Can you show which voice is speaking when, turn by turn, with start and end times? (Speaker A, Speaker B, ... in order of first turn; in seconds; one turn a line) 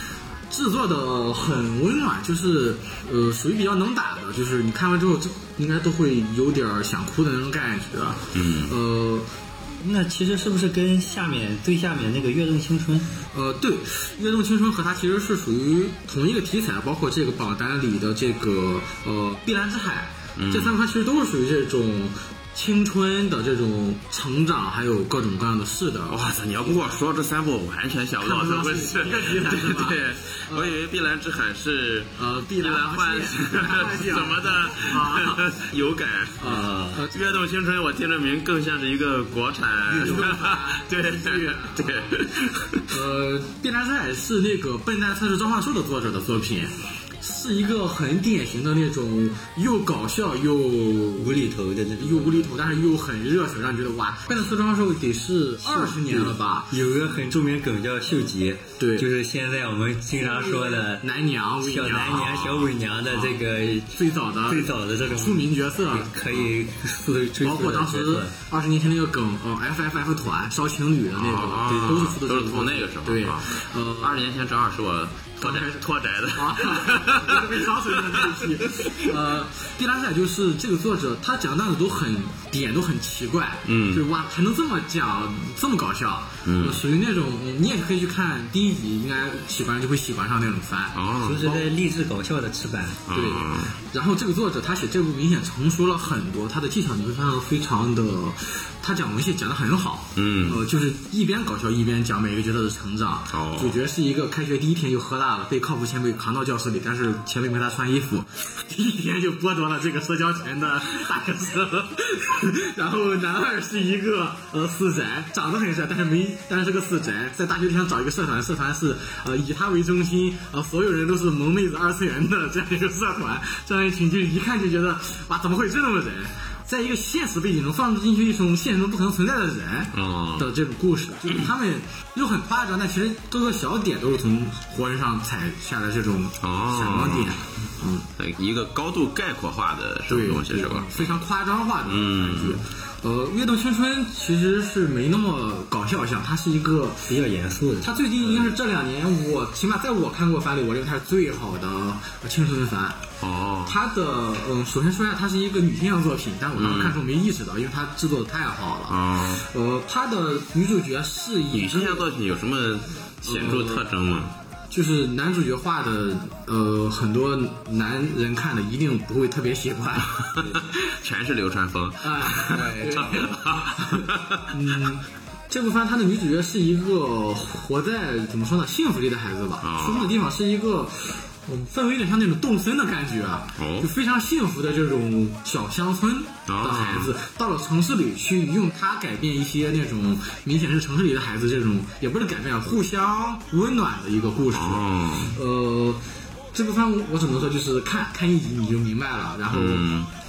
Speaker A: 0.5-9.3
Speaker B: 8.3-8.7
Speaker C: 9.8-13.1
Speaker A: 13.3-26.2
Speaker B: 20.4-20.7
Speaker B: 26.1-42.9
Speaker A: 28.2-30.8
Speaker A: 32.2-35.6
Speaker A: 36.4-37.1
Speaker C: 36.5-37.0
Speaker A: 39.9-42.2
Speaker A: 42.9-51.4
Speaker C: 51.1-52.5
Speaker A: 52.0-56.7
Speaker C: 55.6-68.3
Speaker A: 58.8-59.1
Speaker A: 60.2-62.5
Speaker B: 62.2-62.7
Speaker A: 63.1-66.1
Speaker A: 67.4-74.2
Speaker B: 71.2-79.1
Speaker C: 71.7-72.0
Speaker A: 75.4-91.7
Speaker B: 83.7-84.0
Speaker B: 86.5-86.8
Speaker B: 90.9-91.5
Speaker C: 91.2-93.1
Speaker B: 93.1-93.7
Speaker A: 93.1-138.1
Speaker B: 100.2-100.6
Speaker B: 103.3-103.8
Speaker B: 129.9-130.5
Speaker B: 136.4-137.3
Speaker B: 138.2-141.2
Speaker A: 140.1-147.1
Speaker B: 141.8-142.6
Speaker C: 147.1-147.9
Speaker A: 147.8-153.0
Speaker B: 153.2-153.7
Speaker A: 153.7-162.1
Speaker B: 156.6-157.0
Speaker B: 158.9-159.4
Speaker B: 161.5-164.3
Speaker A: 163.2-163.9
Speaker A: 164.7-170.7
Speaker B: 170.3-174.4
Speaker A: 172.0-199.9
Speaker B: 179.6-180.1
Speaker B: 183.6-183.9
Speaker B: 186.5-187.1
Speaker B: 194.5-195.3
Speaker B: 199.5-200.1